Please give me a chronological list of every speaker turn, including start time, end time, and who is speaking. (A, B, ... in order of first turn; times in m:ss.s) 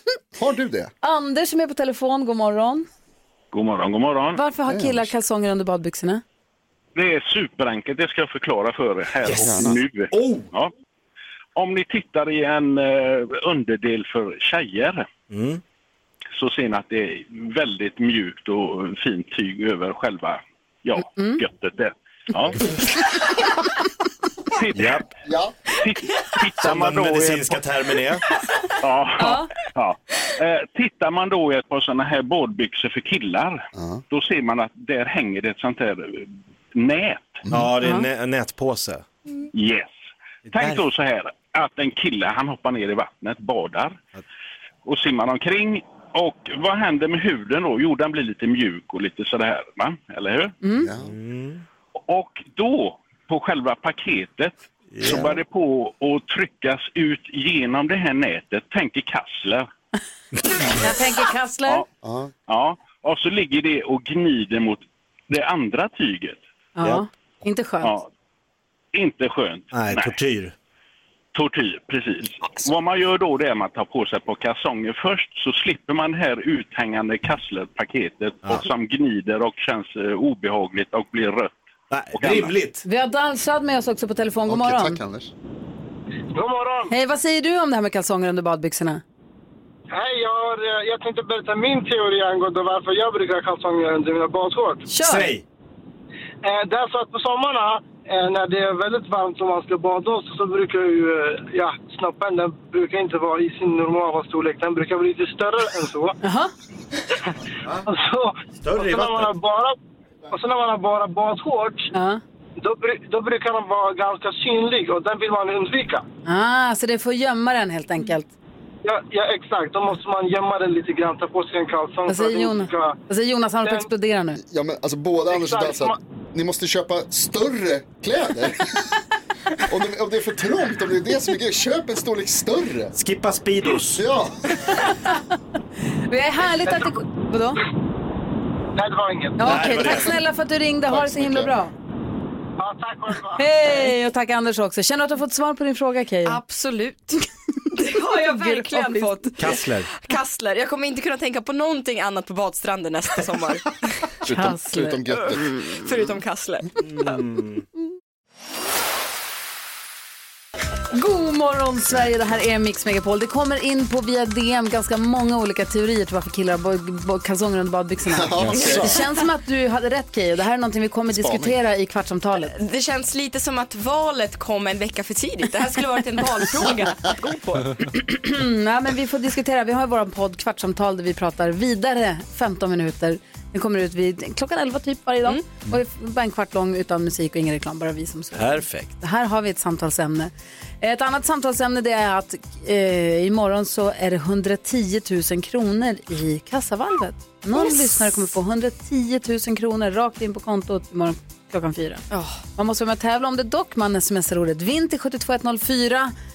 0:00.4-0:00.9 A
0:01.0-0:02.9 B
0:03.5-0:04.4 C
0:04.4-0:06.2 B
0:04.7-0:05.1 A
0:06.9-0:10.7 C
0:09.2-0:10.5 D
0:09.4-0:09.8 A
0:11.6-0:15.1 C
0:15.3-0:15.6 D
0:16.4-0:22.6 C
0:21.1-0:21.4 B
0:24.6-0:25.1 C
0:24.8-0:25.1 D
0:25.2-0:25.5 A
0:25.8-0:27.6 C
0:26.6-0:28.2 D
0:28.8-0:37.4 C
0:29.2-0:29.5 B
0:33.7-0:34.0 A
0:37.5-0:39.0 D
0:37.8-0:38.1 B
0:39.5-0:39.9 C
0:40.5-0:40.8 D
0:40.5-0:44.0 C
0:44.8-0:50.6 C
0:50.6-0:50.9 B
0:50.8-0:51.1 A
0:51.0-0:51.6 D
0:52.1-0:59.7 C
0:54.9-0:55.3 D
1:00.6-1:01.8 B
1:02.0-1:02.3 A
1:02.5-1:06.4 C
1:06.8-1:07.9 B
1:07.8-1:08.1 C
1:08.9-1:10.2 C
1:09.7-1:10.5 D
1:11.3-1:21.5 C
1:21.9-1:22.8 D
1:22.2-1:22.5 C
1:22.8-1:25.0 B
1:24.5-1:25.3 A
1:26.4-1:26.9 E
1:26.9-1:29.0 B
1:29.9-1:34.8 E
1:34.9-1:35.3 B
1:35.0-1:35.4 D
1:36.4-1:46.2 E
1:46.2-1:46.5 B
1:47.9-1:49.8 E
1:48.6-1:49.3 D
1:50.3-1:51.9 E
1:51.9-1:52.2 B
1:52.6-1:56.0 E
1:56.2-1:58.3 B
1:58.8-2:03.0 E
2:02.1-2:04.4 B
2:03.6-2:03.9 E
2:04.4-2:08.6 A
2:05.3-2:05.9 E
2:09.6-2:12.9 A
2:12.9-2:14.0 D
2:14.0-2:14.4 A
2:14.8-2:15.2 B
2:16.1-2:17.6 B
2:16.7-2:16.9 E
2:18.8-2:19.4 E
2:19.4-2:21.7 B
2:19.4-2:20.2 D
2:20.9-2:21.5 A
2:22.6-2:23.9 E
2:23.4-2:26.4 B
2:26.2-2:33.8 F
2:27.9-2:29.4 B
2:29.4-2:29.9 D
2:34.2-2:35.5 A
2:34.3-2:35.1 B
2:35.1-2:37.2 F
2:36.8-2:37.6 D
2:40.9-2:52.5 B
2:48.1-2:48.9 A
2:48.4-2:49.0 D
2:51.1-2:51.6 A
2:52.4-2:57.8 F
2:57.9-3:22.0 B
3:08.4-3:08.9 D
3:17.5-3:18.1 F
3:22.1-3:22.4 F
3:22.6-3:26.1 B